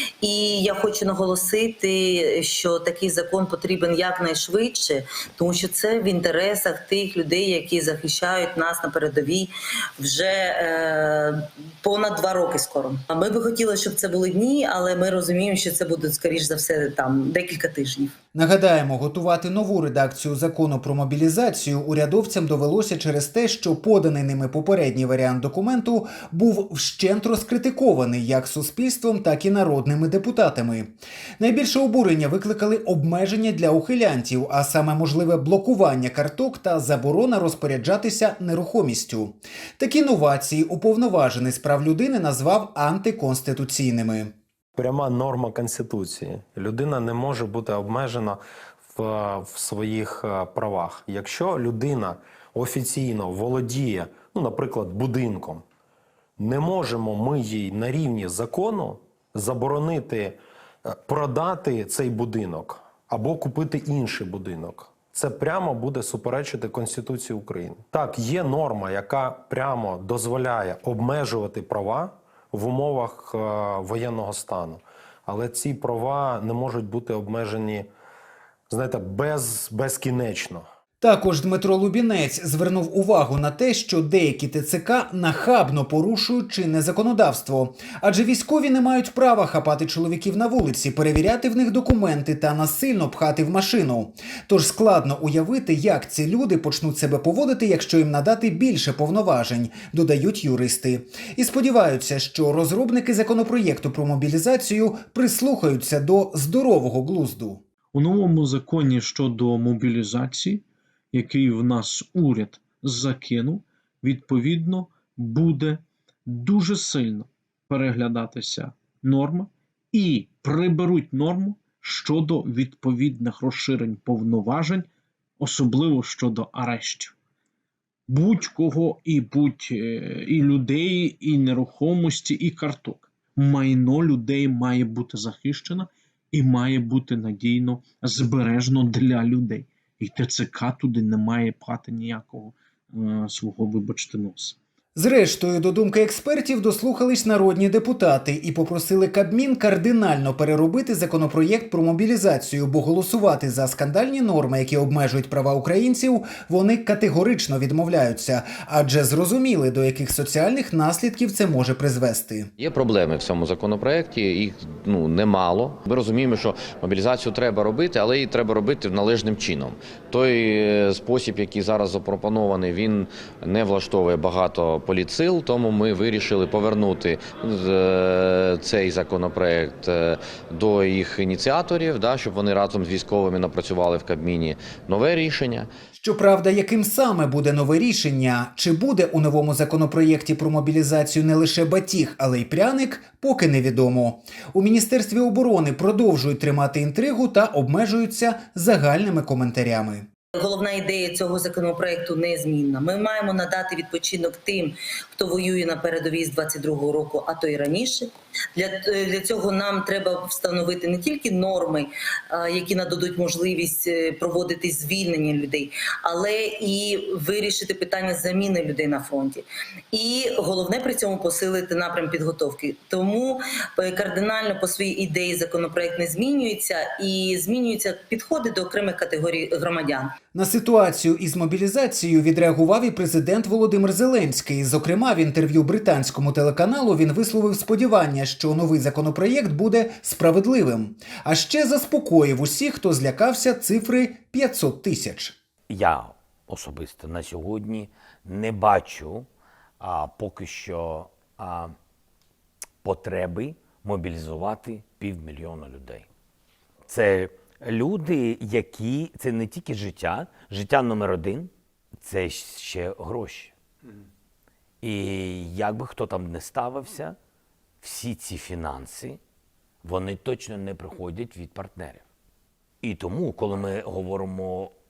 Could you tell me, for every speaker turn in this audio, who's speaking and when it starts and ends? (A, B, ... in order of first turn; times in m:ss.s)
0:00.2-0:18.2 A
0:18.3-0:44.3 B
0:44.8-0:48.4 C
0:48.9-0:55.6 C
0:56.4-1:17.9 C
1:18.7-1:20.7 C
1:21.0-1:47.6 B
1:47.9-2:04.9 D
2:05.4-2:07.2 D
2:08.1-2:24.6 D
2:25.0-2:42.5 B
2:42.6-3:05.7 E
3:05.9-3:20.1 B
3:20.4-3:50.1 A
3:50.3-4:05.4 B
4:05.7-4:09.3 F
4:09.8-4:11.8 F
4:12.8-4:16.1 F
4:16.9-4:23.5 F
4:24.8-4:27.2 F
4:27.8-4:29.2 F
4:29.8-4:32.0 F
4:32.8-4:34.7 F